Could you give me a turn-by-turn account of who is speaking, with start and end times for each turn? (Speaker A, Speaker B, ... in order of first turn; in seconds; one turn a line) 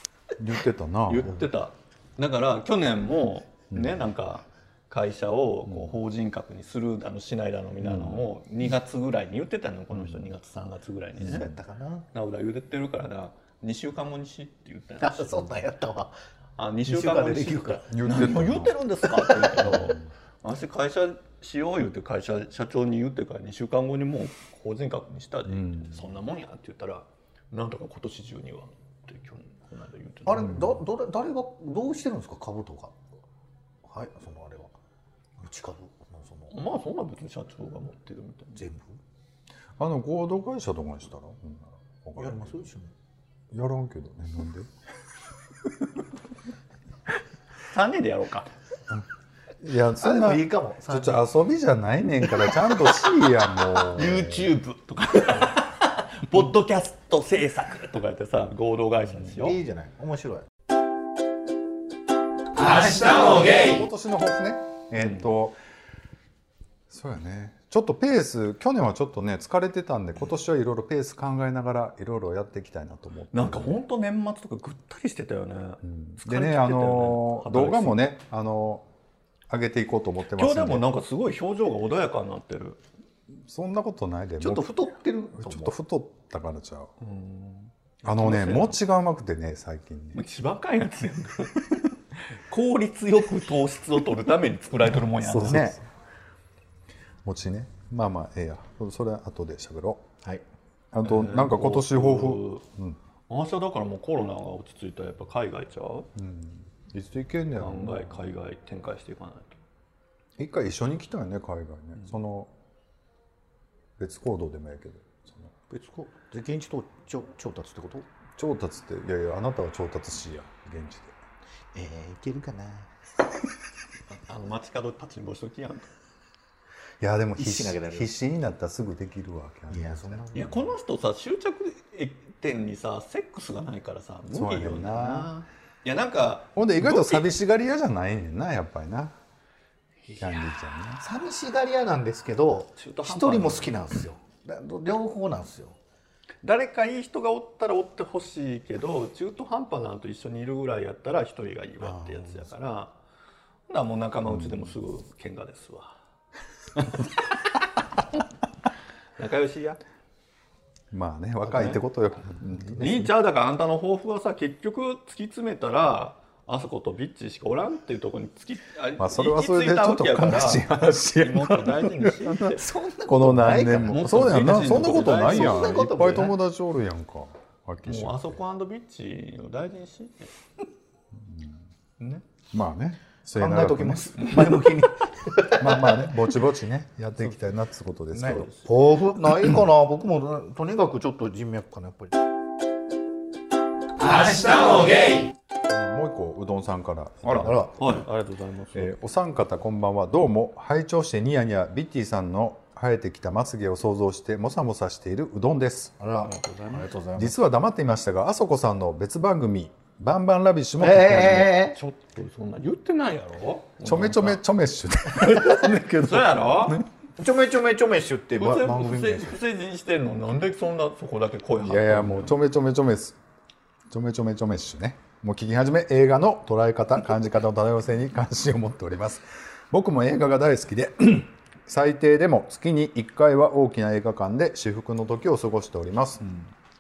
Speaker A: 0.4-1.3
Speaker B: 1.1-11.5
Speaker A: 5.7-5.9
Speaker A: 7.8-8.2
Speaker A: 9.9-10.2
Speaker C: 11.2-12.1
Speaker B: 12.1-15.5
Speaker C: 15.0-16.1
Speaker B: 16.6-30.7
Speaker C: 16.9-17.9
Speaker A: 17.9-18.7
Speaker C: 19.2-19.7
Speaker A: 25.5-26.0
Speaker C: 30.2-32.9
Speaker C: 33.8-34.7
Speaker C: 35.4-36.5
Speaker B: 36.5-38.6
Speaker C: 38.5-39.0
Speaker A: 39.8-42.7
Speaker C: 42.2-42.9
Speaker A: 43.5-44.7
Speaker B: 47.7-48.5
Speaker A: 49.6-54.5
Speaker C: 50.0-51.2
Speaker B: 53.9-59.6
Speaker C: 59.3-60.5
Speaker A: 62.7-65.6
Speaker A: 66.9-73.8
Speaker B: 73.3-78.0
Speaker A: 75.8-78.8
Speaker A: 79.5-80.8
Speaker B: 80.3-82.8
Speaker A: 83.5-86.9
Speaker C: 84.4-85.7
Speaker B: 87.0-88.8
Speaker A: 88.0-90.2
Speaker B: 90.1-95.8
Speaker A: 95.2-95.8
Speaker C: 95.4-95.8
Speaker A: 97.2-100.1
Speaker A: 100.9-103.0
Speaker B: 101.0-102.6
Speaker B: 103.3-106.1
Speaker A: 106.2-108.1
Speaker B: 107.6-109.6
Speaker A: 110.4-112.5
Speaker A: 114.0-115.5
Speaker C: 115.7-118.1
Speaker A: 118.4-121.2
Speaker C: 121.7-122.9
Speaker B: 124.1-125.9
Speaker A: 127.0-130.2
Speaker C: 127.4-128.1
Speaker C: 129.7-130.7
Speaker B: 130.3-137.3
Speaker A: 134.3-135.3
Speaker A: 136.5-139.1
Speaker A: 140.2-141.0
Speaker C: 141.0-145.7
Speaker B: 142.8-143.8
Speaker B: 146.4-152.9
Speaker C: 151.8-152.4
Speaker B: 153.7-155.9
Speaker A: 154.3-154.7
Speaker B: 156.8-157.1
Speaker B: 159.2-159.8
Speaker A: 160.9-163.1
Speaker C: 162.6-163.1
Speaker B: 162.8-172.6
Speaker A: 169.0-178.4
Speaker C: 172.4-176.3
Speaker B: 173.7-176.1
Speaker B: 177.8-180.3
Speaker A: 181.1-181.6
Speaker A: 182.5-184.2
Speaker C: 183.3-186.1
Speaker A: 185.6-188.5
Speaker C: 188.1-192.1
Speaker B: 188.2-188.7
Speaker A: 195.6-197.7
Speaker B: 197.2-198.9
Speaker C: 197.3-197.8
Speaker A: 198.7-205.9
Speaker C: 206.0-207.3
Speaker B: 206.2-206.8
Speaker A: 207.2-211.6
Speaker C: 210.8-211.8
Speaker B: 211.6-214.4
Speaker A: 213.8-216.8
Speaker B: 215.2-216.8
Speaker C: 217.2-219.4
Speaker B: 218.3-222.4
Speaker A: 221.6-223.2
Speaker A: 223.9-236.2